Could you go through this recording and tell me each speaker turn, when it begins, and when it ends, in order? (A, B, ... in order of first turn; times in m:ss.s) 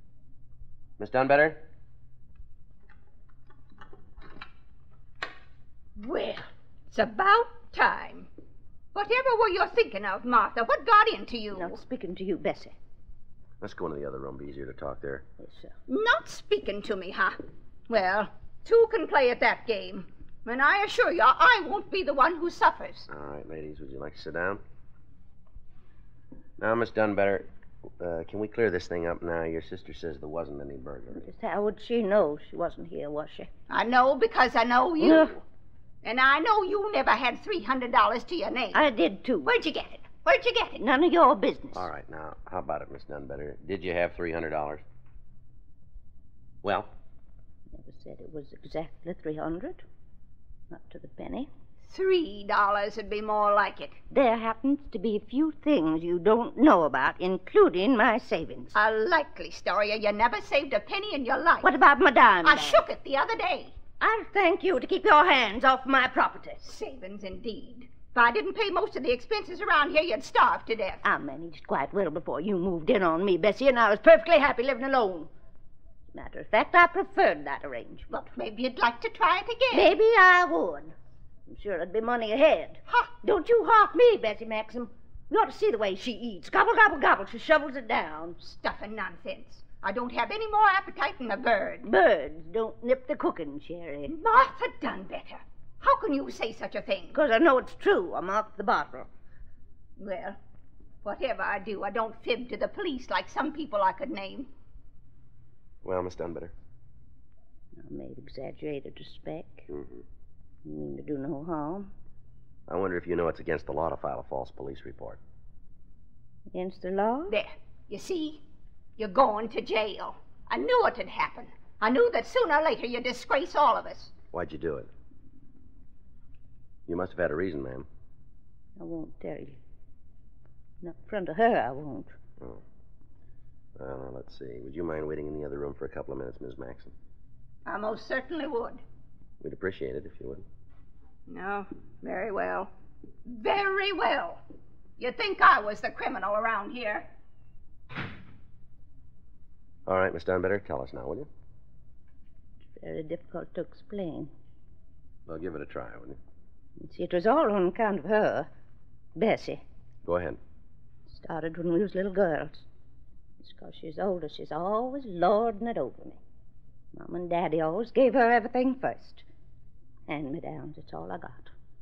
0:01.0-0:01.6 A
0:06.0-0:08.3 B
0:08.9-0:11.8 B
0:11.5-0:12.8 C
0:13.6-0:15.2 A
0:15.4-0:15.7 C
0:15.9-0:23.1 B
0:23.1-0:24.6 A
0:26.6-0:27.5 A
0:28.0-0:31.3 A
0:31.1-0:33.5 C
0:33.7-0:35.4 B
0:35.0-0:35.4 C
0:36.0-0:38.8 B
0:38.7-0:39.5 C
0:39.4-0:40.8 B
0:40.8-0:41.9 C
0:41.7-0:44.8 A
0:46.6-0:46.9 A
0:47.7-0:49.8 C
0:50.7-0:51.5 C
0:51.8-0:54.0 B
0:54.1-0:58.7 C
0:58.7-1:01.7 B
1:01.6-1:02.8 C
1:02.4-1:03.8 B
1:04.0-1:06.6 C
1:06.6-1:11.0 B
1:11.0-1:15.3 C
1:16.1-1:18.1 C
1:18.1-1:19.9 B
1:19.7-1:20.9 C
1:21.5-1:28.4 C
1:28.4-1:31.8 B
1:31.8-1:34.1 C
1:34.1-1:37.2 B
1:37.1-1:39.1 C
1:40.0-1:40.4 B
1:41.0-1:44.5 B
1:45.8-1:46.5 A
1:47.8-1:49.7 C
1:49.7-1:50.0 A
1:50.6-1:51.9 C
1:52.7-1:55.2 A
1:56.5-1:57.3 C
1:57.3-1:58.4 B
1:59.0-2:04.1 B
2:04.3-2:04.9 A
2:06.9-2:07.9 A
2:08.8-2:09.6 C
2:10.8-2:12.1 C
2:13.8-2:16.9 A
2:17.6-2:18.8 B
2:19.4-2:20.4 A
2:21.3-2:22.7 B
2:23.2-2:24.4 B
2:25.0-2:27.1 B
2:29.8-2:31.3 A
2:32.8-2:34.3 C
2:35.2-2:36.2 A
2:36.8-2:38.5 C
2:39.2-2:39.6 C
2:40.0-2:40.4 A
2:41.1-2:42.6 C
2:43.4-2:46.2 C
2:46.9-2:49.2 C
2:50.1-2:51.5 C